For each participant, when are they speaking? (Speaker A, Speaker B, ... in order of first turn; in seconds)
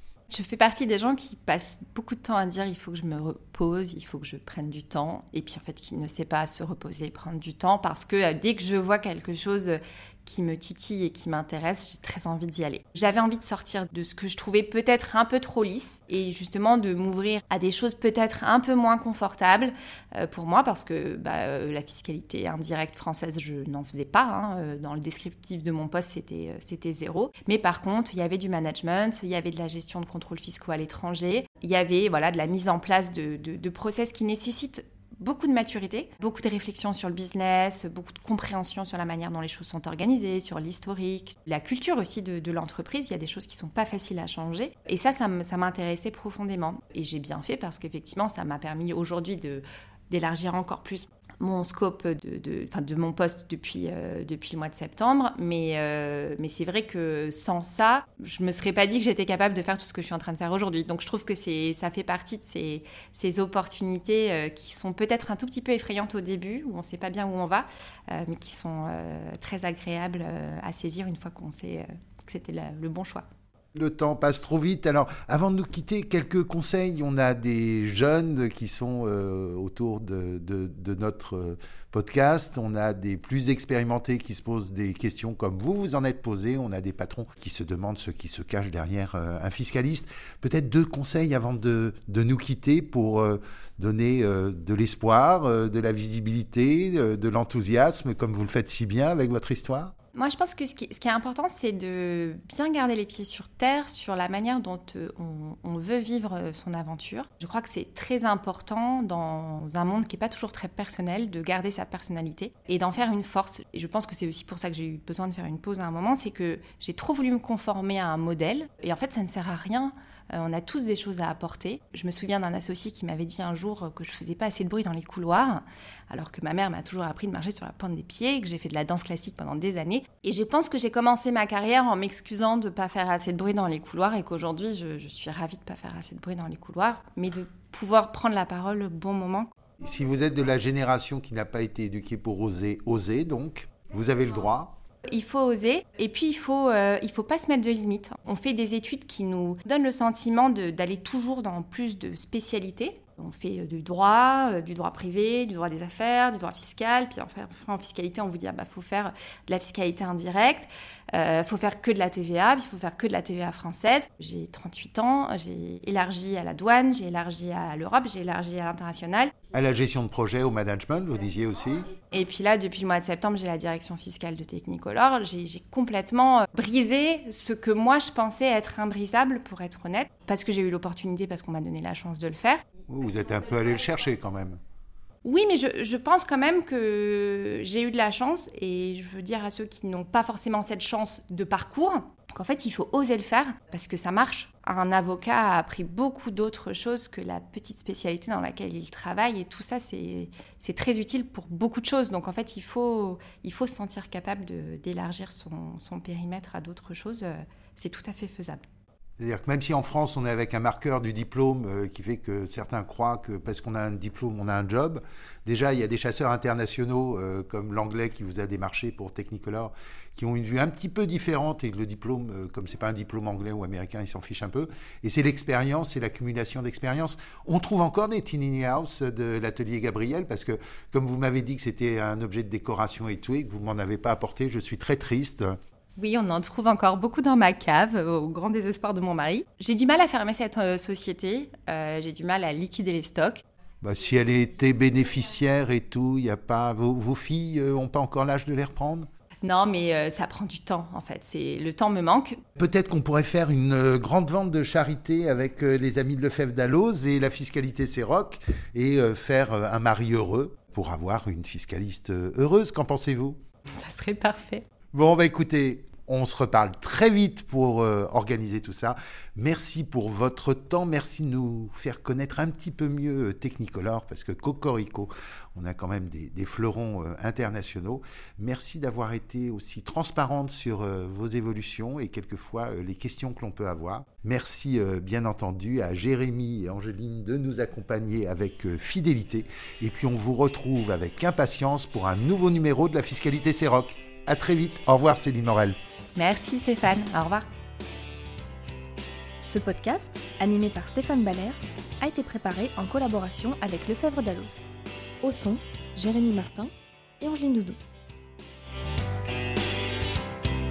Speaker A: 0.3-73.2, 100.1-139.5, 145.1-169.3, 172.1-182.6, 185.2-208.6, 236.0-243.4, 249.4-252.4, 263.7-264.6, 296.2-297.4
Speaker B: 73.7-99.9, 139.8-144.8, 169.5-171.9, 182.9-184.6, 209.2-235.6, 243.8-249.1, 252.6-263.4, 264.9-295.8
Speaker C: 299.4-304.6, 305.2-307.8